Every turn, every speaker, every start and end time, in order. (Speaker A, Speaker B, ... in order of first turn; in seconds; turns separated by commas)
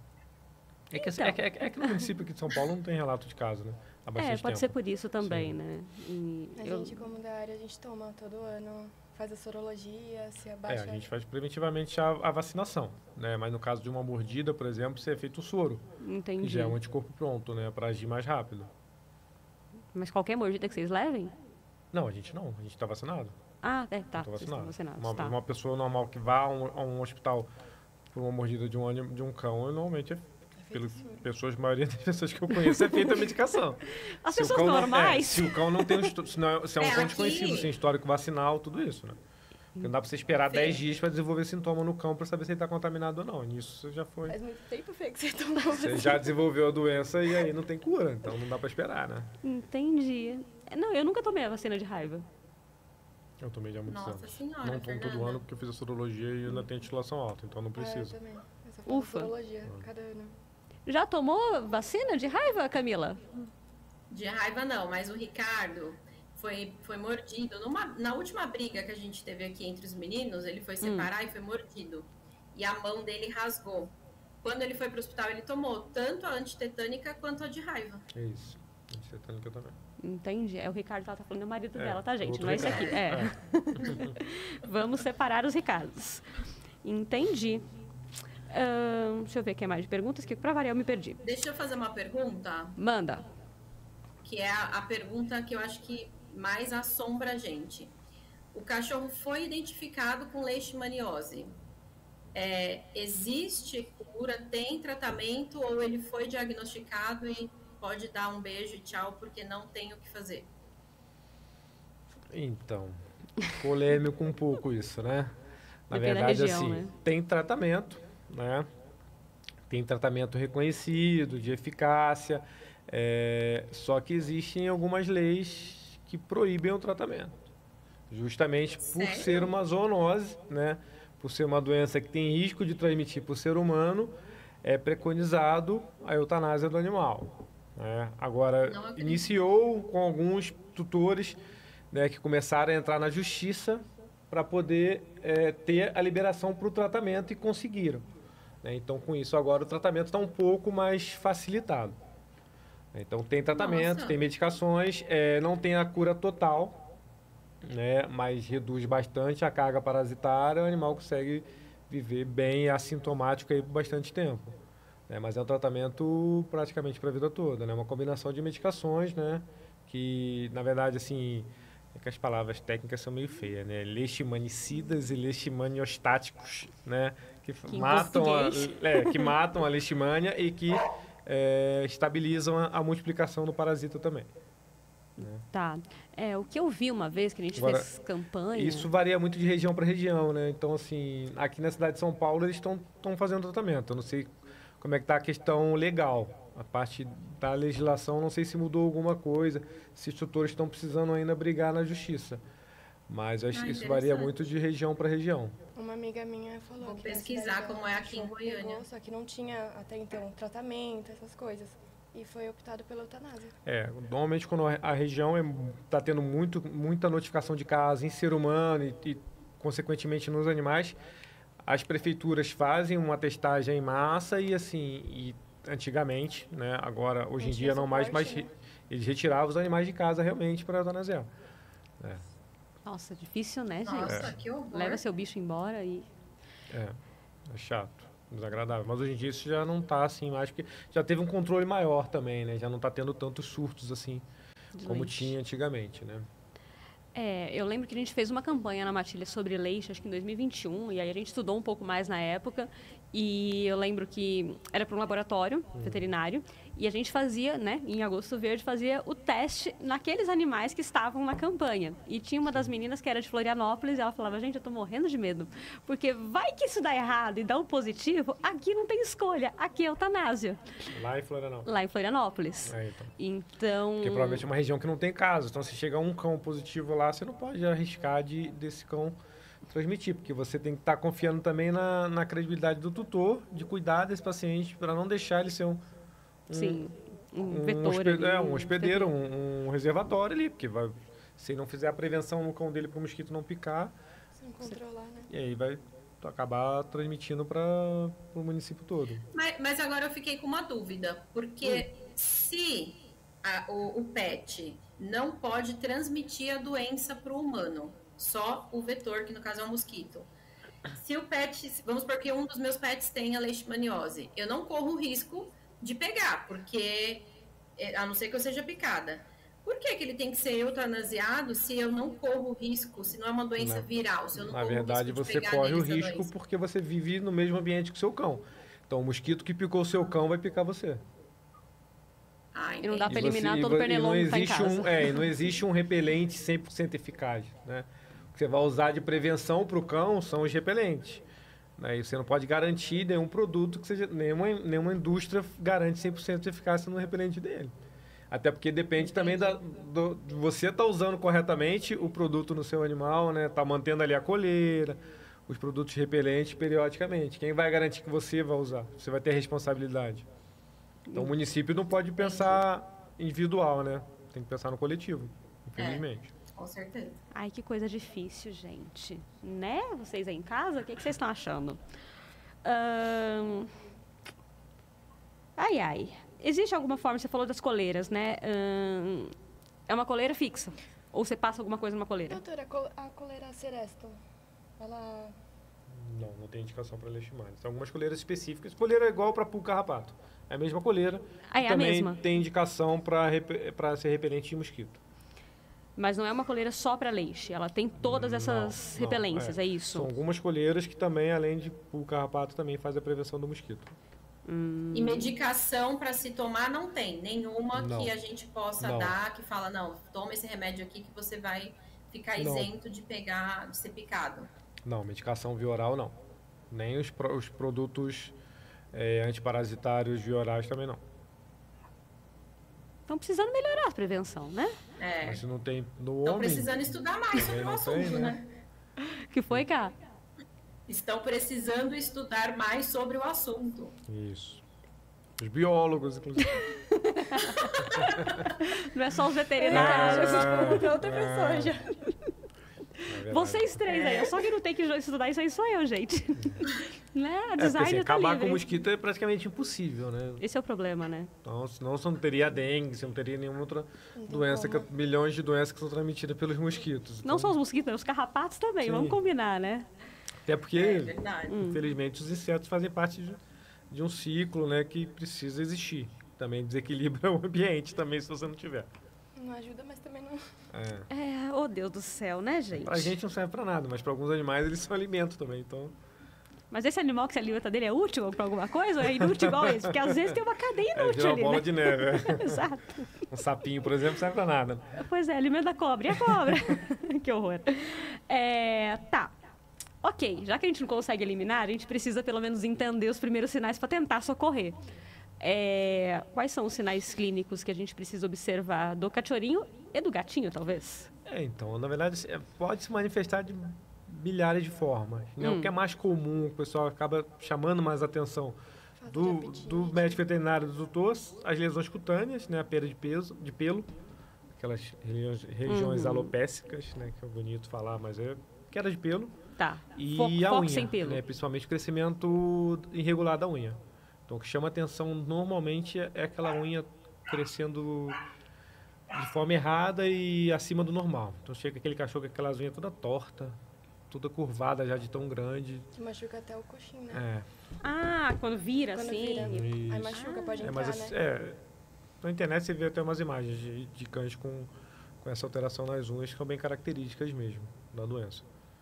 Speaker A: 0.9-5.5, Speaker B: 0.9-1.4, Speaker B: 4.2-7.0, Speaker C: 6.6-11.0, Speaker A: 10.7-15.9, Speaker B: 16.0-16.8, Speaker A: 16.4-18.7, Speaker B: 19.9-21.3, Speaker A: 21.9-23.4, Speaker B: 23.6-25.4, Speaker A: 24.1-27.5, Speaker A: 28.1-39.2, Speaker C: 30.6-31.2, Speaker B: 32.5-33.3, Speaker B: 34.0-36.1, Speaker D: 36.8-37.8, Speaker A: 39.8-44.4, Speaker D: 40.5-40.8, Speaker C: 44.3-46.3, Speaker A: 45.7-49.3, Speaker B: 49.4-52.3, Speaker A: 53.4-58.1, Speaker D: 53.9-55.4, Speaker C: 57.8-60.3, Speaker B: 58.9-59.3, Speaker B: 60.9-63.2, Speaker D: 64.1-78.0, Speaker B: 70.8-71.1, Speaker A: 78.1-79.8, Speaker B: 80.0-86.3, Speaker A: 81.8-84.2, Speaker D: 82.4-83.0, Speaker B: 86.8-87.7, Speaker B: 88.5-91.2, Speaker D: 91.2-92.8, Speaker B: 92.8-93.2, Speaker D: 94.2-97.9, Speaker D: 98.5-101.5, Speaker D: 102.3-110.5, Speaker A: 112.3-113.0, Speaker A: 113.5-115.4, Speaker A: 115.9-118.7, Speaker B: 115.9-116.9, Speaker A: 119.7-127.4, Speaker A: 128.1-141.4, Speaker D: 128.8-129.5, Speaker D: 138.7-139.3, Speaker A: 141.9-148.1, Speaker A: 148.6-152.0, Speaker A: 152.9-156.8, Speaker D: 153.5-154.2, Speaker A: 157.6-184.3, Speaker B: 177.7-179.3, Speaker B: 185.2-188.9, Speaker A: 185.2-185.4, Speaker A: 187.6-187.9, Speaker A: 188.5-202.4, Speaker A: 203.1-205.6, Speaker D: 203.5-204.4, Speaker C: 205.8-213.6, Speaker D: 206.8-208.8, Speaker A: 213.7-221.0, Speaker A: 221.6-231.3, Speaker C: 227.4-228.5, Speaker B: 232.8-236.1, Speaker D: 233.8-235.0, Speaker A: 234.0-234.4, Speaker A: 236.7-244.3, Speaker B: 244.8-245.3, Speaker A: 244.8-246.3, Speaker B: 247.2-270.8, Speaker A: 255.7-256.1, Speaker A: 270.9-271.7, Speaker B: 271.6-274.4, Speaker A: 272.7-273.1, Speaker A: 274.0-279.2, Speaker A: 279.7-285.8, Speaker A: 286.5-286.9, Speaker B: 286.5-289.1, Speaker A: 287.4-294.0, Speaker C: 294.4-295.3, Speaker A: 295.3-299.2, Speaker D: 299.3-310.3, Speaker D: 310.9-326.3, Speaker A: 323.6-331.0, Speaker D: 332.5-333.3, Speaker B: 332.8-335.2, Speaker A: 333.1-341.2, Speaker A: 341.8-347.7, Speaker A: 348.3-360.3, Speaker D: 349.0-349.6, Speaker B: 361.1-361.3, Speaker A: 361.1-366.3, Speaker D: 362.2-362.6, Speaker D: 365.8-367.2, Speaker B: 367.3-371.8, Speaker B: 372.6-373.7, Speaker B: 375.6-379.4, Speaker B: 379.9-382.4, Speaker C: 382.3-384.2, Speaker C: 384.8-385.4, Speaker A: 385.9-395.0, Speaker B: 391.5-392.2, Speaker B: 396.0-400.1, Speaker A: 398.0-404.0, Speaker B: 404.4-405.3, Speaker D: 404.9-414.5, Speaker A: 407.7-408.1, Speaker A: 408.8-409.2, Speaker A: 412.4-412.7, Speaker A: 414.9-416.2, Speaker A: 416.7-418.4, Speaker A: 418.9-421.0, Speaker B: 423.1-424.8, Speaker D: 425.0-425.4, Speaker A: 425.2-428.4, Speaker D: 426.2-428.4, Speaker B: 429.3-429.9, Speaker D: 430.9-434.0, Speaker A: 434.1-434.6, Speaker A: 435.4-436.7, Speaker B: 436.4-442.3, Speaker A: 437.8-438.5, Speaker C: 439.6-441.9, Speaker A: 439.7-441.8, Speaker B: 443.0-448.6, Speaker A: 443.1-443.9, Speaker C: 443.9-444.4, Speaker A: 446.4-446.7, Speaker A: 447.6-450.4, Speaker B: 450.4-451.3, Speaker A: 451.4-457.6, Speaker C: 454.2-454.9, Speaker B: 457.2-459.9, Speaker A: 458.8-459.2, Speaker A: 460.5-468.9, Speaker D: 460.8-461.6, Speaker B: 461.5-461.8, Speaker C: 469.4-470.4, Speaker A: 470.7-471.1, Speaker B: 471.1-473.1, Speaker A: 472.8-476.0, Speaker B: 476.7-483.1, Speaker A: 479.0-480.4, Speaker A: 480.9-482.7, Speaker A: 483.2-485.0, Speaker B: 485.0-489.3, Speaker A: 486.1-486.8, Speaker B: 490.0-494.8, Speaker B: 495.4-501.1, Speaker A: 501.3-513.9, Speaker B: 505.4-505.7, Speaker C: 509.0-510.2, Speaker A: 514.6-519.4, Speaker B: 515.7-516.3, Speaker B: 519.6-521.2, Speaker A: 520.0-528.2, Speaker A: 529.1-535.9, Speaker C: 536.0-537.2, Speaker A: 537.1-537.5, Speaker B: 537.8-540.8, Speaker C: 538.9-541.1, Speaker A: 539.4-541.6, Speaker A: 542.2-548.5